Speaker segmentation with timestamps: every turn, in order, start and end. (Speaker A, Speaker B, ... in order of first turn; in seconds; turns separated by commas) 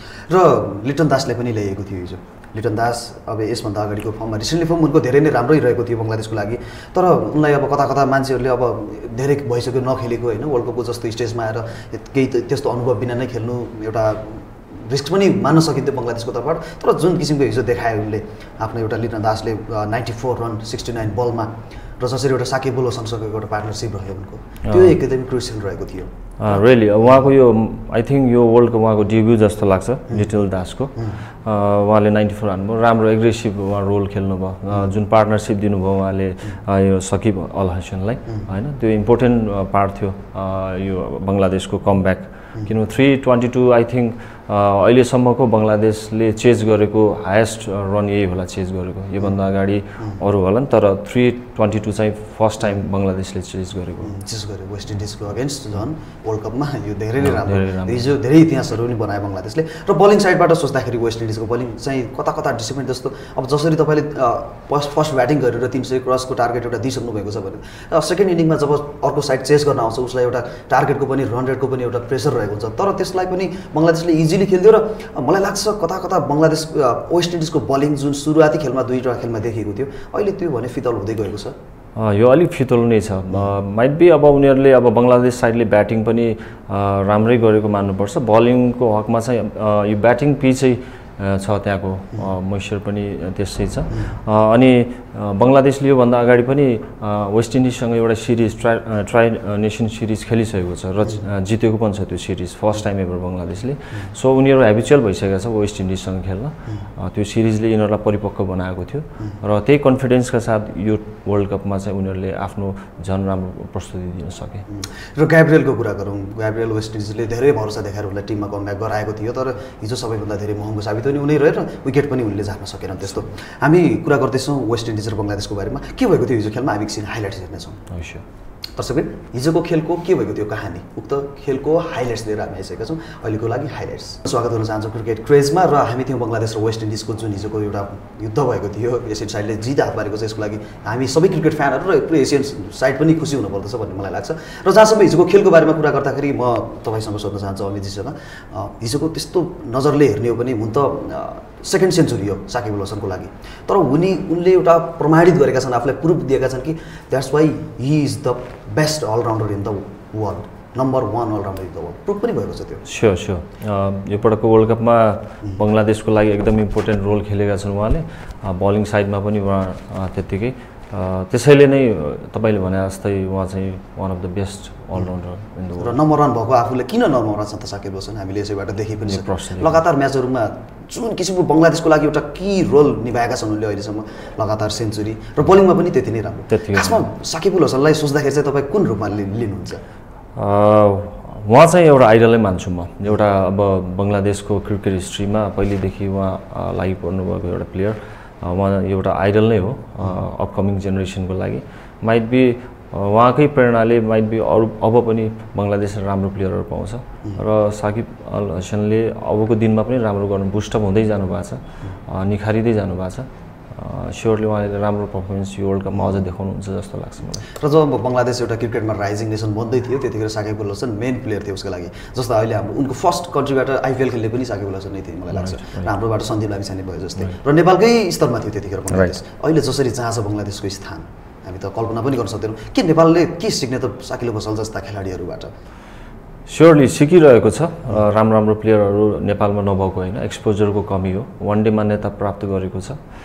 Speaker A: 0.3-26.6, Speaker B: 24.7-25.0, Speaker B: 26.4-54.1, Speaker A: 54.0-81.5, Speaker B: 57.2-58.1, Speaker B: 82.0-114.7, Speaker A: 114.7-127.8, Speaker B: 127.9-128.2, Speaker A: 128.8-162.9, Speaker B: 162.9-176.0, Speaker A: 175.8-189.8, Speaker B: 179.1-179.8, Speaker B: 186.5-187.1, Speaker B: 190.3-217.5, Speaker A: 217.4-235.5, Speaker B: 225.3-225.9, Speaker B: 236.5-243.0